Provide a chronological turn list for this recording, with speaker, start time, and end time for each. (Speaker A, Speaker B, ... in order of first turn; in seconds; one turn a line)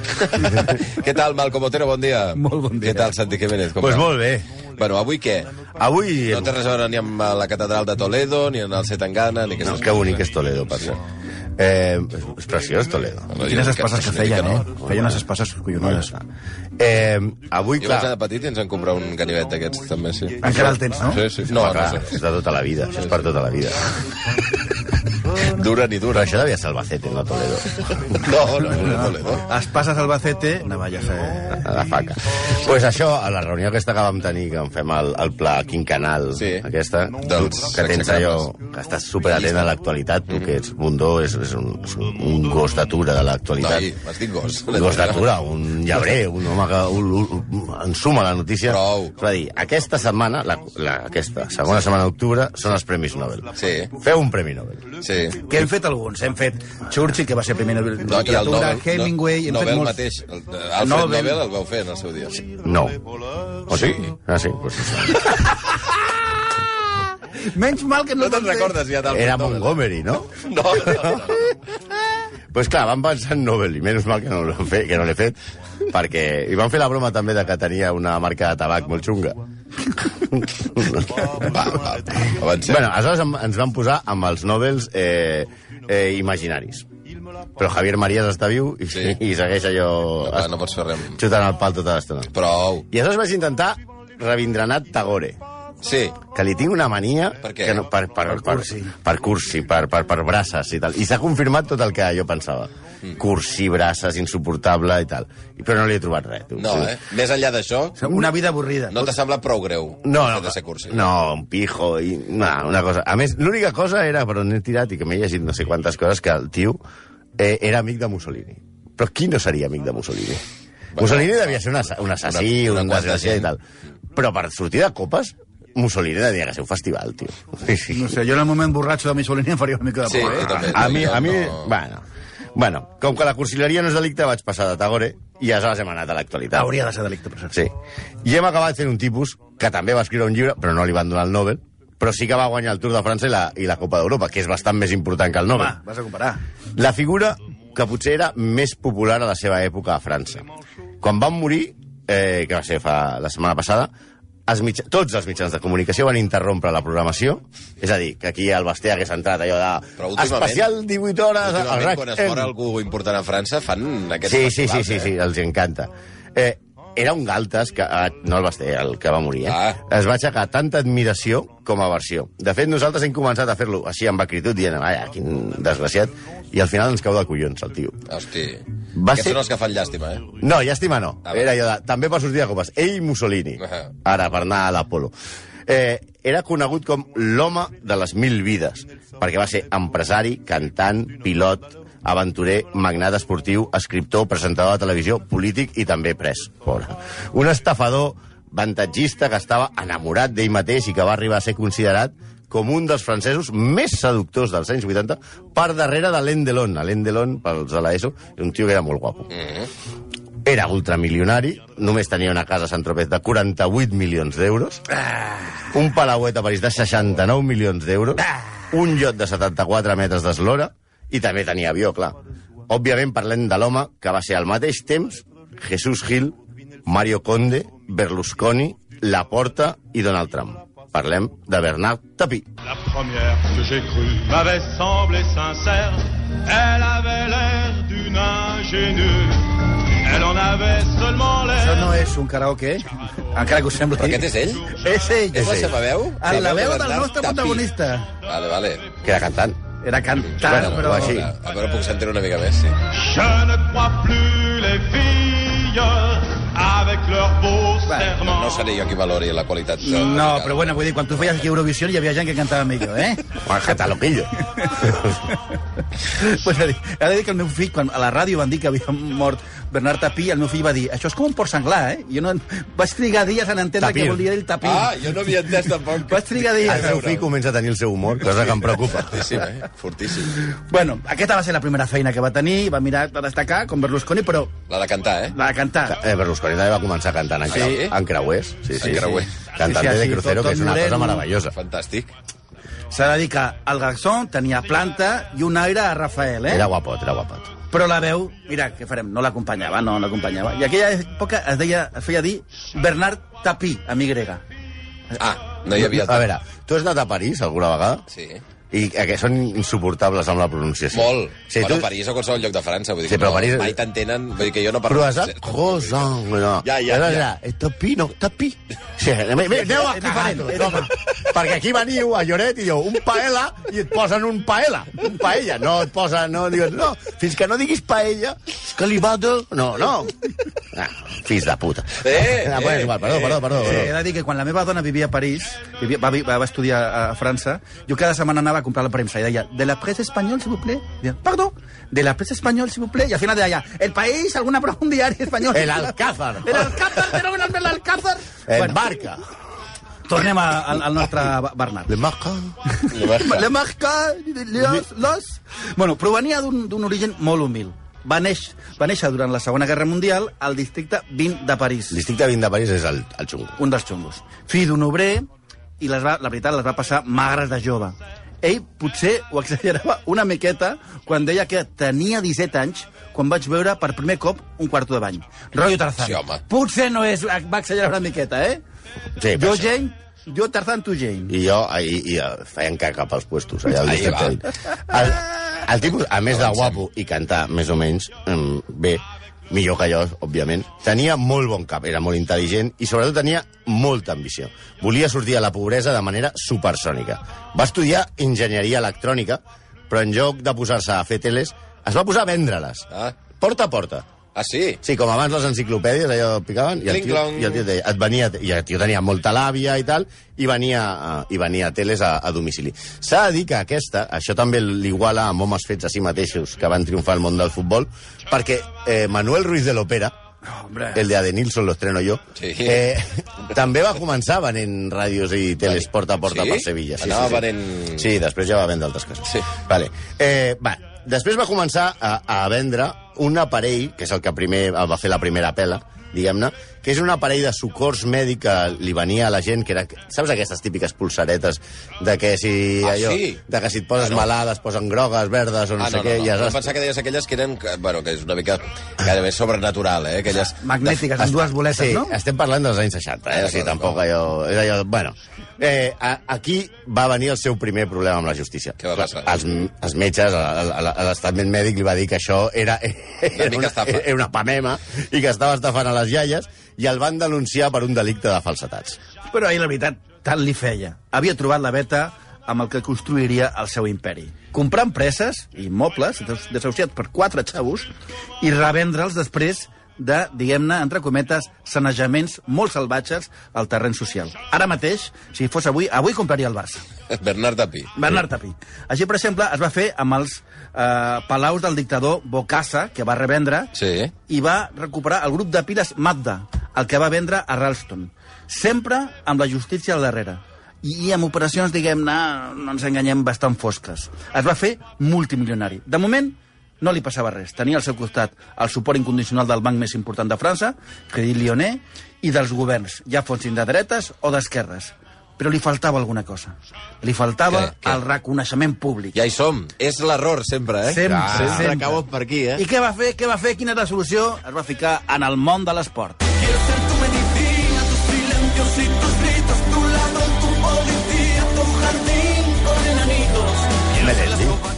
Speaker A: 0.2-4.1
Speaker B: 0.4-0.8
Speaker C: 2.4-3.1
Speaker B: 3.8-4.5
Speaker A: 4.8-5.6
Speaker B: 5.8-6.6
Speaker A: 6.3-10.2
Speaker B: 9.6-11.0
Speaker B: 11.6-13.3
Speaker A: 13.3-14.7
Speaker C: 13.4-16.1
Speaker B: 14.8-15.2
Speaker B: 15.8-16.2
Speaker B: 16.8-18.2
Speaker A: 17.8-22.2
Speaker C: 20.4-21.3
Speaker B: 21.4-24.0
Speaker A: 25.4-26.4
Speaker B: 26.1-28.3
Speaker A: 28.1-29.5
Speaker C: 28.8-31.6
Speaker B: 31.6-43.9
Speaker A: 36.3-36.7
Speaker A: 37.2-38.5
Speaker A: 39.3-39.7
Speaker A: 43.6-45.3
Speaker B: 44.7-54.9
Speaker A: 48.7-49.1
Speaker A: 53.6-53.9
Speaker A: 55.0-55.4
Speaker C: 55.5-60.0
Speaker A: 58.0-62.4
Speaker C: 60.8-61.4
Speaker B: 62.4-63.0
Speaker B: 63.7-65.4
Speaker A: 63.7-64.1
Speaker C: 67.5-68.8
Speaker A: 68.2-69.8
Speaker B: 69.0-71.4
Speaker A: 70.4-71.5
Speaker B: 72.5-75.4
Speaker B: 75.9-79.4
Speaker B: 80.0-81.5
Speaker A: 81.2-82.8
Speaker B: 82.5-86.9
Speaker B: 87.6-90.5
Speaker A: 88.9-89.2
Speaker A: 90.3-91.2
Speaker B: 91.2-92.3
Speaker A: 92.3-92.9
Speaker B: 92.9-95.4
Speaker A: 95.8-96.2
Speaker B: 96.3-107.0
Speaker A: 97.4-97.8
Speaker C: 98.3-99.0
Speaker A: 106.6-108.2
Speaker C: 108.0-109.1
Speaker A: 108.9-111.1
Speaker B: 110.0-116.8
Speaker B: 117.4-120.4
Speaker A: 121.0-121.5
Speaker B: 121.0-123.6
Speaker A: 122.3-123.5
Speaker B: 124.1-128.1
Speaker C: 127.9-130.8
Speaker A: 130.1-131.7
Speaker B: 130.4-132.0
Speaker B: 132.6-136.7
Speaker C: 136.5-137.6
Speaker B: 137.5-145.8
Speaker C: 145.5-146.4
Speaker B: 146.8-150.4
Speaker B: 151.0-153.9
Speaker B: 154.5-162.5
Speaker A: 160.0-160.7
Speaker A: 161.4-165.1
Speaker B: 164.2-178.1
Speaker A: 169.5-169.8
Speaker A: 178.1-180.3
Speaker B: 178.9-179.4
Speaker B: 180.4-185.1
Speaker A: 183.6-183.9
Speaker B: 185.7-209.3
Speaker A: 209.4-209.7
Speaker B: 210.4-214.8
Speaker B: 215.7-222.2
Speaker B: 222.7-232.5
Speaker D: 232.7-242.0
Speaker C: 241.6-245.7
Speaker A: 244.0-244.8
Speaker A: 245.3-247.7
Speaker B: 245.4-245.7
Speaker C: 246.2-248.1
Speaker A: 248.3-248.9
Speaker B: 249.0-249.6
Speaker C: 249.8-251.3
Speaker A: 250.2-252.8
Speaker B: 250.4-251.3
Speaker D: 252.9-258.7
Speaker C: 257.9-258.2
Speaker A: 258.2-261.5
Speaker C: 259.8-263.4
Speaker B: 263.4-265.1
Speaker C: 264.6-265.4
Speaker C: 266.0-275.1
Speaker B: 273.8-274.2
Speaker A: 274.6-277.2
Speaker C: 276.0-277.1
Speaker B: 276.6-279.4
Speaker A: 278.9-280.4
Speaker C: 280.4-284.6
Speaker A: 284.7-285.4
Speaker C: 285.3-286.0
Speaker B: 285.9-291.6
Speaker A: 287.5-288.0
Speaker A: 288.7-289.3
Speaker C: 288.9-291.3
Speaker A: 291.5-292.1
Speaker C: 292.9-296.7
Speaker B: 296.5-297.5
Speaker C: 297.7-304.4
Speaker A: 305.2-306.3
Speaker B: 305.8-308.0
Speaker A: 308.1-308.4
Speaker B: 308.7-311.9
Speaker A: 310.9-316.0
Speaker B: 313.1-313.8
Speaker B: 314.9-330.2
Speaker A: 316.6-317.3
Speaker C: 319.5-320.9
Speaker B: 330.7-333.9
Speaker A: 332.0-333.5
Speaker C: 333.6-348.9
Speaker B: 345.5-346.9
Speaker B: 348.5-349.2
Speaker C: 350.1-351.9
Speaker B: 351.9-352.6
Speaker C: 352.7-362.0
Speaker A: 352.9-353.5
Speaker B: 361.9-363.6
Speaker C: 363.6-365.3
Speaker C: 365.8-378.6
Speaker A: 376.0-376.4
Speaker B: 379.2-379.7
Speaker C: 379.4-381.3
Speaker B: 381.3-402.9
Speaker A: 383.8-384.4
Speaker A: 386.3-386.8
Speaker A: 402.9-403.2
Speaker B: 403.4-404.1
Speaker A: 404.4-404.8
Speaker B: 404.8-420.1
Speaker A: 406.9-407.6
Speaker C: 420.5-421.1
Speaker B: 420.9-446.8
Speaker A: 422.4-422.9
Speaker A: 425.7-428.1
Speaker A: 442.8-443.4
Speaker A: 444.0-444.3
Speaker A: 445.8-451.1
Speaker C: 450.6-452.2
Speaker B: 451.5-469.0
Speaker A: 453.3-454.0
Speaker A: 458.8-459.4
Speaker A: 463.4-464.1
Speaker C: 469.3-477.9
Speaker C: 478.4-486.9
Speaker A: 487.1-488.2
Speaker C: 488.0-493.7
Speaker A: 493.8-494.1
Speaker C: 494.3-519.2
Speaker A: 517.5-518.0
Speaker A: 519.1-522.6
Speaker C: 520.9-522.0
Speaker B: 521.2-521.6
Speaker C: 522.6-533.9
Speaker B: 534.0-534.6